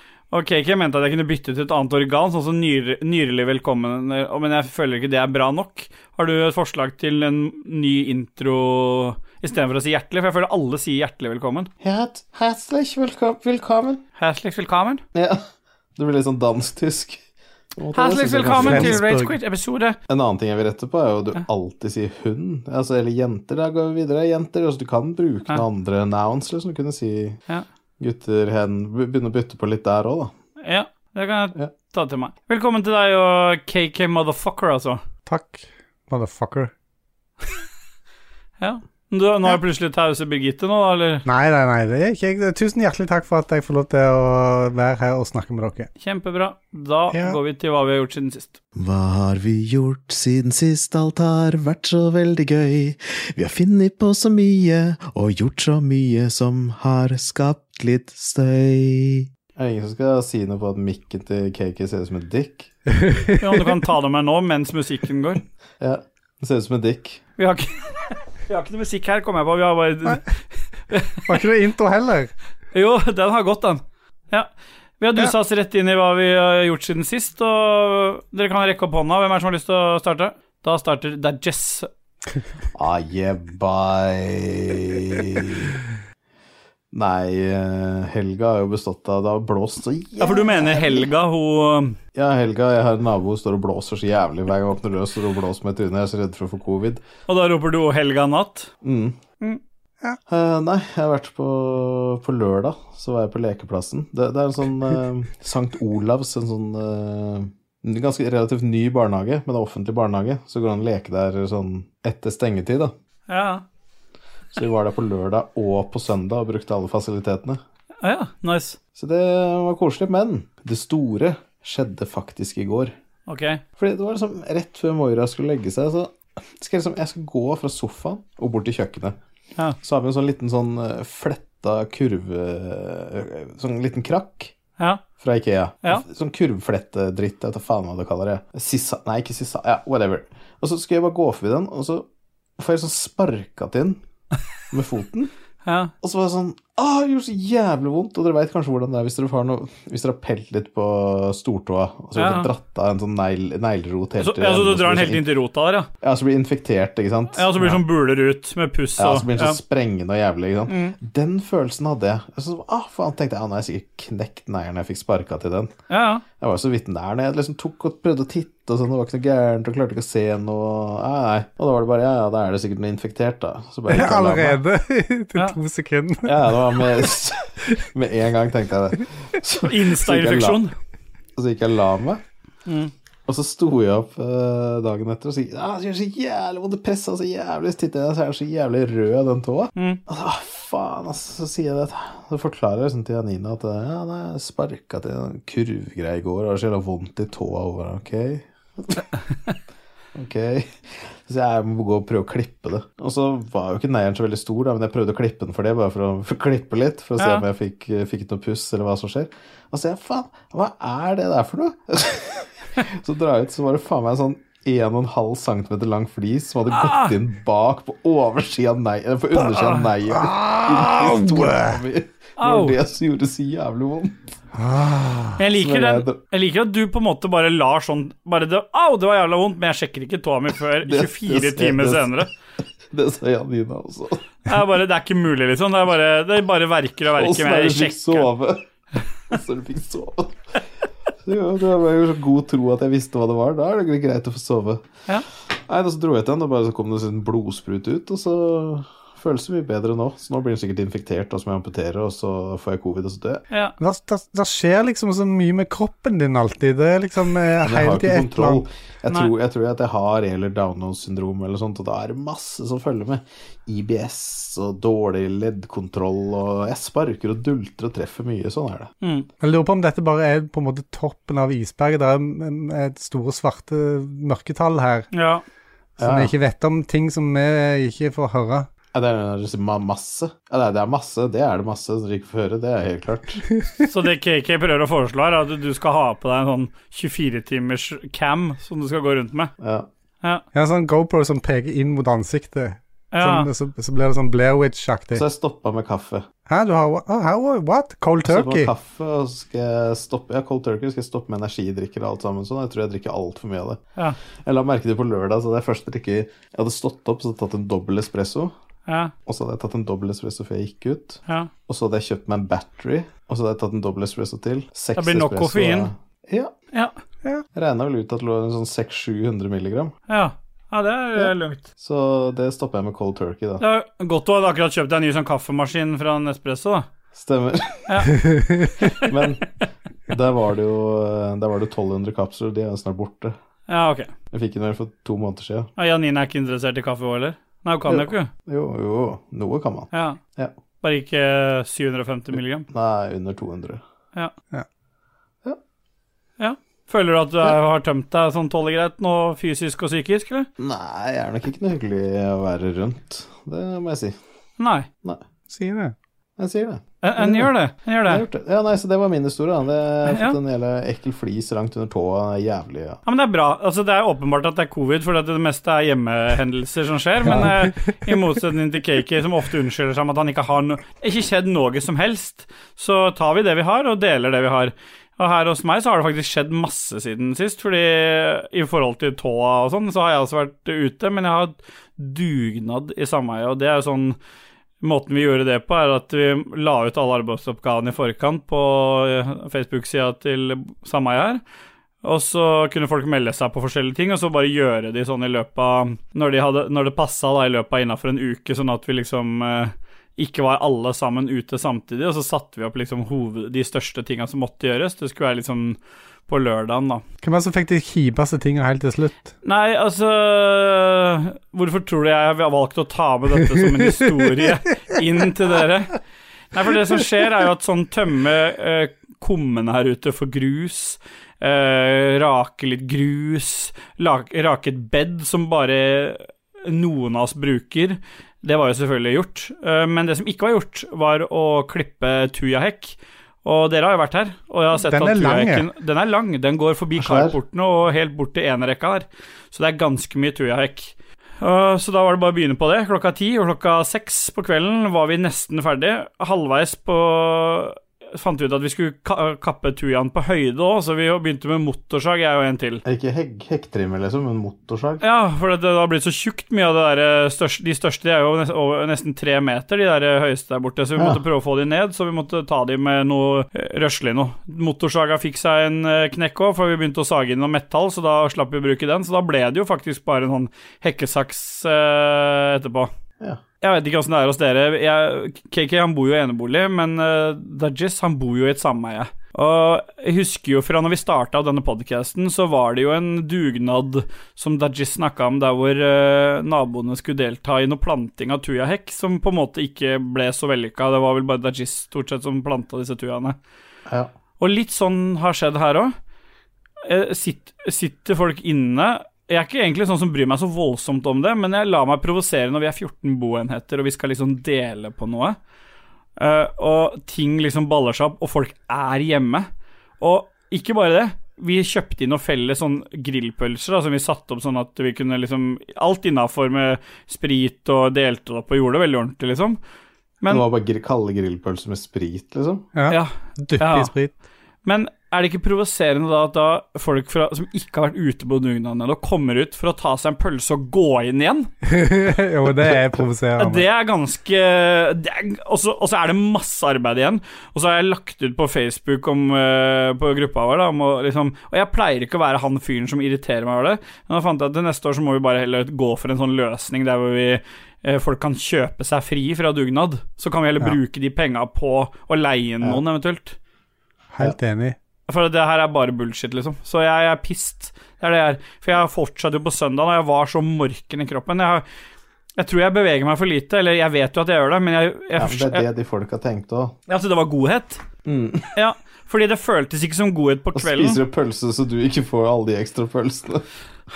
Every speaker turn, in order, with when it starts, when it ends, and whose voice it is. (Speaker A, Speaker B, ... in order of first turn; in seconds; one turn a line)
Speaker A: 0.3-11.7
Speaker B: 11.8-14.0
Speaker A: 14.2-15.0
Speaker B: 15.1-15.4
Speaker B: 16.0-17.2
Speaker B: 17.8-19.0
Speaker A: 17.9-20.0
Speaker C: 18.5-19.4
Speaker B: 20.1-27.4
Speaker B: 28.0-30.3
Speaker A: 30.6-35.0
Speaker C: 35.2-36.7
Speaker A: 38.6-41.2
Speaker C: 41.2-45.9
Speaker A: 46.0-48.6
Speaker C: 47.1-47.4
Speaker B: 48.8-62.7
Speaker C: 62.9-63.7
Speaker A: 63.4-65.4
Speaker B: 65.8-67.2
Speaker A: 67.4-71.3
Speaker C: 71.3-72.3
Speaker A: 72.7-74.5
Speaker A: 75.0-81.9
Speaker B: 82.7-85.8
Speaker B: 86.9-91.1
Speaker A: 90.2-92.0
Speaker B: 92.1-97.0
Speaker A: 97.3-98.7
Speaker B: 98.8-99.2
Speaker B: 100.3-112.9
Speaker A: 113.3-113.6
Speaker B: 114.5-117.6
Speaker A: 118.0-118.8
Speaker B: 119.0-122.9
Speaker A: 123.3-123.6
Speaker B: 123.8-129.2
Speaker B: 129.8-134.5
Speaker B: 135.2-142.1
Speaker B: 142.6-144.0
Speaker B: 144.7-145.3
Speaker A: 145.7-145.9
Speaker B: 146.0-155.2
Speaker A: 152.2-152.5
Speaker A: 154.2-155.9
Speaker B: 156.0-157.8
Speaker A: 157.3-159.6
Speaker B: 159.0-165.7
Speaker A: 160.7-160.9
Speaker A: 165.9-166.2
Speaker B: 166.4-174.6
Speaker C: 173.9-177.1
Speaker B: 176.2-180.6
Speaker A: 179.6-180.7
Speaker B: 181.3-182.2
Speaker A: 182.7-182.9
Speaker B: 183.3-199.0
Speaker B: 200.2-200.7
Speaker B: 201.2-224.3
Speaker A: 207.2-207.4
Speaker A: 216.7-217.1
Speaker A: 219.3-219.9
Speaker C: 220.1-221.8
Speaker A: 222.4-222.7
Speaker C: 224.5-225.4
Speaker A: 225.4-232.3
Speaker B: 225.5-226.2
Speaker B: 230.8-232.2
Speaker B: 232.9-234.2
Speaker A: 234.5-238.2
Speaker B: 237.2-238.7
Speaker B: 239.3-240.4
Speaker B: 241.2-244.8
Speaker B: 245.7-253.4
Speaker C: 253.8-258.6
Speaker B: 257.6-268.9
Speaker A: 269.0-269.3
Speaker C: 269.4-275.1
Speaker A: 275.1-275.4
Speaker B: 276.0-276.3
Speaker C: 276.0-278.7
Speaker B: 278.9-283.4
Speaker C: 283.6-283.9
Speaker A: 283.9-289.5
Speaker B: 289.6-289.9
Speaker C: 290.5-295.2
Speaker A: 293.1-293.5
Speaker B: 295.1-296.2
Speaker C: 296.5-298.7
Speaker B: 298.2-303.8
Speaker B: 304.4-308.5
Speaker A: 308.9-309.1
Speaker B: 309.2-316.5
Speaker A: 315.0-315.9
Speaker B: 317.5-319.9
Speaker A: 320.1-321.6
Speaker B: 321.2-323.6
Speaker A: 323.6-326.9
Speaker B: 327.1-328.1
Speaker A: 327.9-329.1
Speaker C: 328.3-328.6
Speaker B: 328.8-329.5
Speaker B: 330.1-333.4
Speaker A: 333.7-334.1
Speaker B: 334.3-335.7
Speaker A: 335.8-338.3
Speaker B: 337.9-340.5
Speaker A: 339.9-340.2
Speaker A: 340.8-342.7
Speaker B: 342.7-343.8
Speaker A: 346.4-350.5
Speaker B: 350.6-354.1
Speaker A: 354.6-354.9
Speaker C: 355.5-355.9
Speaker B: 356.4-357.5
Speaker A: 357.0-358.2
Speaker B: 358.1-363.0
Speaker A: 360.1-360.4
Speaker A: 363.1-384.2
Speaker C: 367.2-368.1
Speaker A: 384.8-391.4
Speaker A: 392.0-407.0
Speaker C: 407.2-409.3
Speaker A: 409.4-416.0
Speaker A: 416.5-452.8
Speaker C: 434.8-435.7
Speaker B: 437.0-437.4
Speaker B: 452.9-455.0
Speaker A: 455.0-472.9
Speaker A: 473.6-493.4
Speaker A: 494.4-495.9
Speaker A: 496.9-505.4
Speaker A: 506.2-509.5
Speaker A: 510.0-519.6
Speaker B: 520.3-522.6
Speaker C: 522.8-524.1
Speaker A: 522.9-523.9
Speaker A: 524.6-531.5
Speaker C: 531.6-533.6
Speaker A: 533.4-553.4
Speaker C: 554.1-554.8
Speaker A: 555.1-561.6
Speaker A: 562.4-565.6
Speaker B: 565.2-566.8
Speaker A: 566.9-567.8
Speaker B: 568.0-568.5
Speaker A: 568.5-571.0
Speaker B: 570.5-573.5